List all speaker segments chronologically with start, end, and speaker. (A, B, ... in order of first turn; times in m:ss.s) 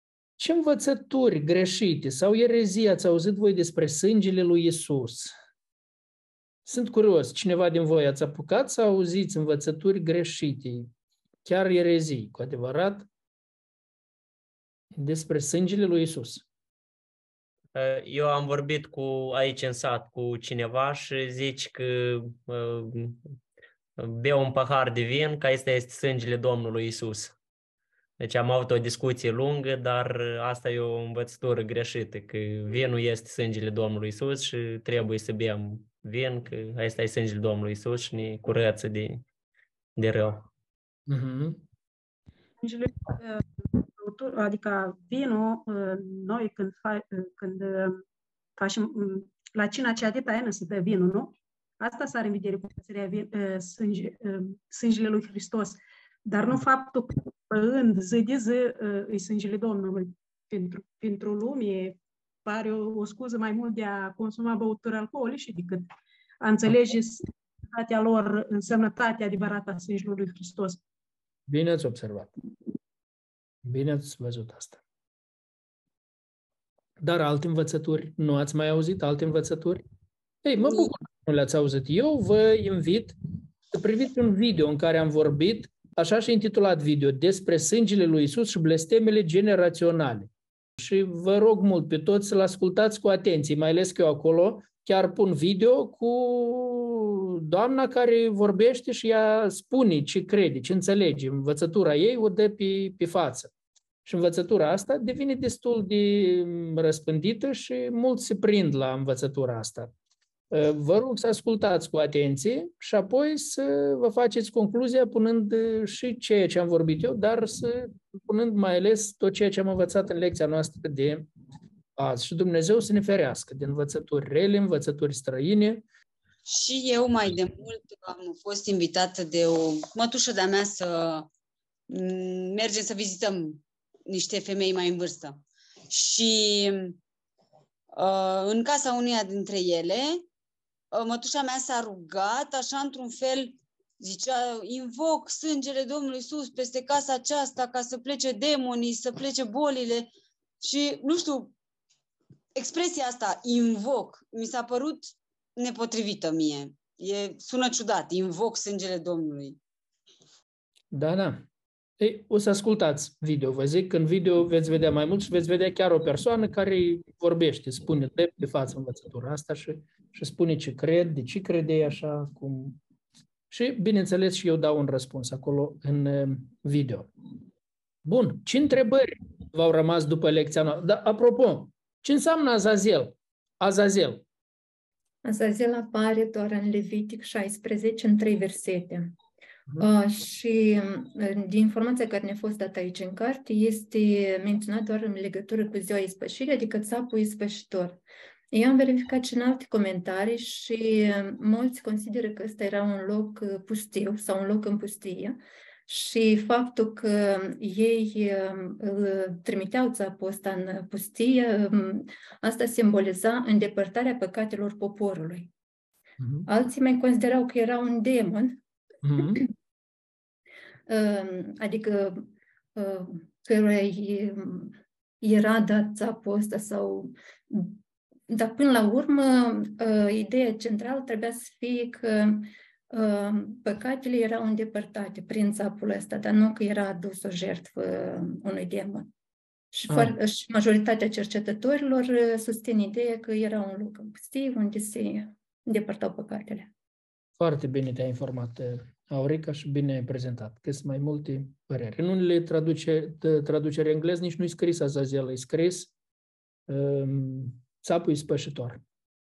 0:00.4-0:05.3 A
0:06.6-0:10.9 A
0:11.4-0:13.1 A
0:15.0-0:16.4 A
0:17.7-0:23.3 B
0:24.0-0:27.3 B
0:28.2-0:39.2 B
0:40.0-0:40.5 B
0:41.1-0:41.6 A
0:42.6-0:48.0 C
0:48.6-1:05.8 C
1:06.4-1:10.8 C
1:11.5-1:12.3 A
1:13.6-1:14.8 A
1:17.0-1:19.8 A
1:20.4-1:23.2 A
1:20.6-1:20.9 D
1:23.7-1:43.5 A
1:44.0-1:49.9 A
1:50.5-2:01.3 A
2:02.0-2:05.8 A
2:06.4-2:11.3 D
2:11.9-2:17.0 D
2:17.9-2:20.2 D
2:20.9-2:30.1 D
2:30.6-2:31.5 D
2:32.5-2:39.6 D
2:40.9-2:41.4 A
2:42.0-2:52.8 A
2:53.5-2:57.1 A
2:58.0-3:04.2 A
3:05.2-3:09.1 E
3:09.8-3:18.0 E
3:18.5-3:35.5 E
3:36.2-3:36.5 A
3:36.5-3:38.6 E
3:39.0-3:39.4 A
3:40.9-3:59.1 E
3:59.7-4:06.7 E
3:59.9-4:00.1 A
4:07.4-4:15.9 A
4:16.7-4:18.8 A